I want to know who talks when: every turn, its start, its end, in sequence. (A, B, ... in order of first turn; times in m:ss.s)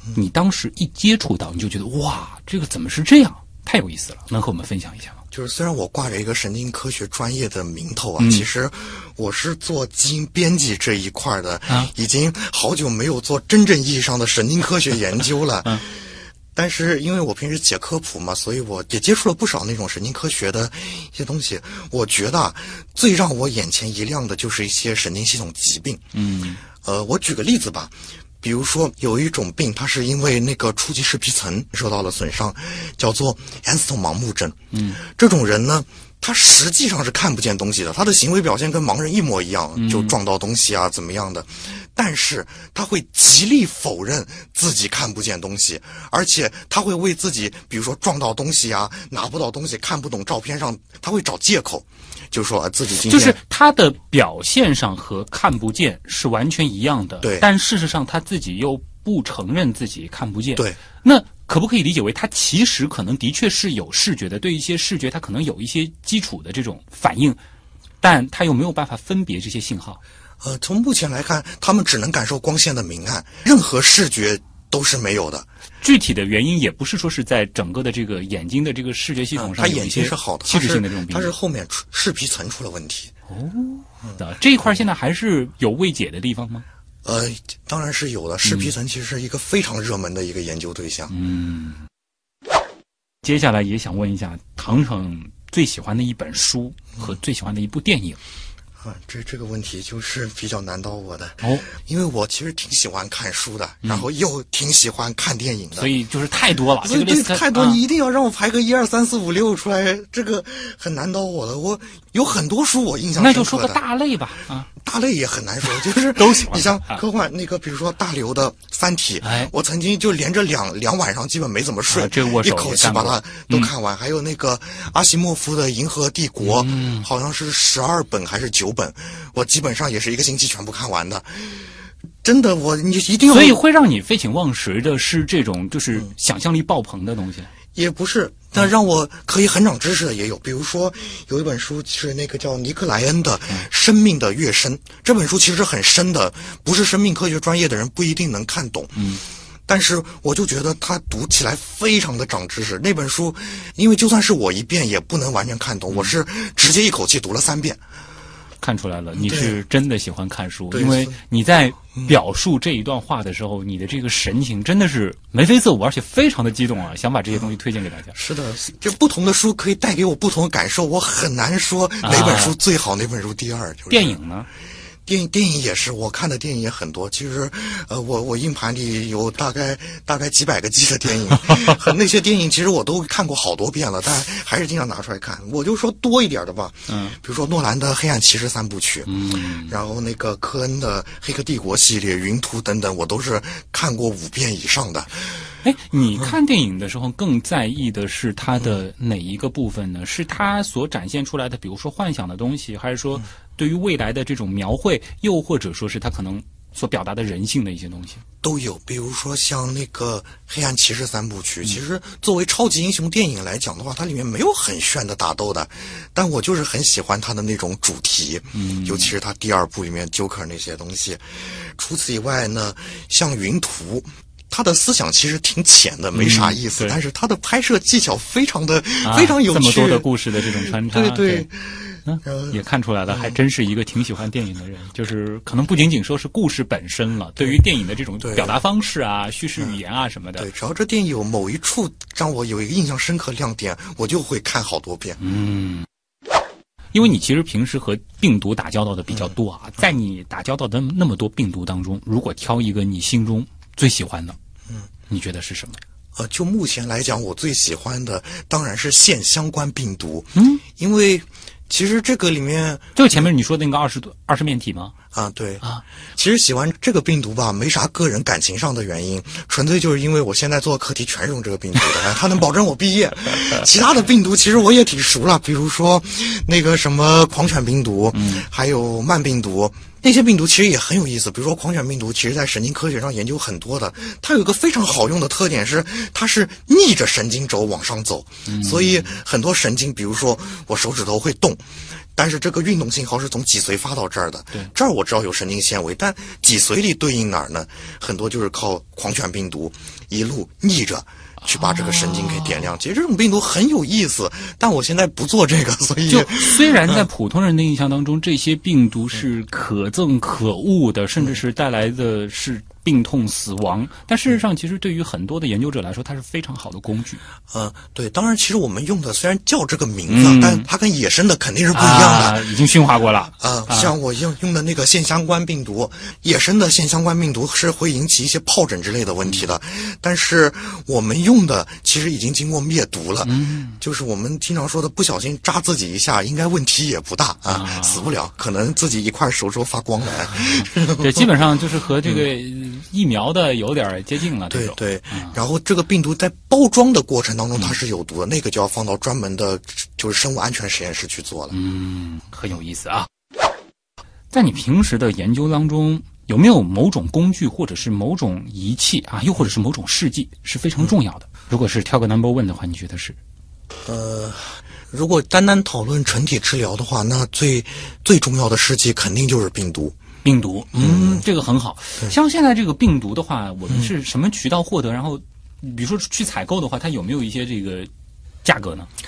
0:00.2-0:05.2 A
0:05.3-0:26.0 B
0:08.2-0:08.4 A
0:26.1-0:26.6 A
0:26.8-0:53.4 B
0:34.7-0:35.0 A
0:39.8-0:40.2 A
0:53.1-1:07.4 A
0:57.2-0:57.5 B
1:08.0-1:10.0 A
1:10.4-1:15.5 B
1:15.8-1:21.3 A
1:19.4-1:23.1 B
1:23.3-1:26.6 A
1:27.0-1:31.1 B
1:28.4-1:28.7 A
1:31.1-1:31.9 A
1:33.2-1:38.2 A
1:38.8-1:45.9 B
1:45.8-1:47.8 A
1:46.8-1:53.8 B
1:53.2-1:54.7 A
1:54.7-2:13.6 B
1:56.2-1:57.0 A
1:59.2-1:59.5 A
2:01.9-2:03.7 A
2:06.4-2:07.1 A
2:13.3-2:17.5 A
2:17.7-2:37.8 B
2:29.0-2:29.2 A
2:38.6-2:48.2 A
2:39.2-2:39.6 B
2:40.7-2:41.2 B
2:48.1-2:54.2 B
2:52.0-2:52.6 A
2:53.9-2:54.5 A
2:55.1-3:15.6 B
3:06.9-3:07.2 A
3:09.1-3:09.7 A
3:15.6-3:28.2 A
3:28.4-3:50.1 B
3:38.5-3:39.1 A
3:46.1-3:47.0 A
3:49.0-3:51.5 A
3:50.6-3:52.6 B
3:52.1-4:00.5 A
3:58.2-3:58.6 B
4:00.4-4:05.2 B
4:05.2-4:05.9 A
4:06.9-4:14.4 A
4:15.1-4:15.8 A
4:16.2-4:23.2 B
4:20.4-4:20.6 A
4:23.0-4:25.0 A
4:25.1-5:07.0 B
4:38.1-4:38.5 A
4:48.5-4:49.1 A
5:01.5-5:02.7 A
5:06.1-5:17.2 A
5:17.5-5:22.4 B
5:20.1-5:20.7 A
5:21.7-5:23.9 A
5:23.4-5:41.3 B
5:33.2-5:33.8 A
5:37.5-5:38.1 A
5:40.5-5:45.4 A
5:44.5-5:51.6 B
5:51.5-5:53.1 A
5:54.3-6:03.2 A
6:03.9-6:10.0 B
6:10.2-6:17.9 A
6:10.8-6:11.2 B
6:18.4-6:18.9 A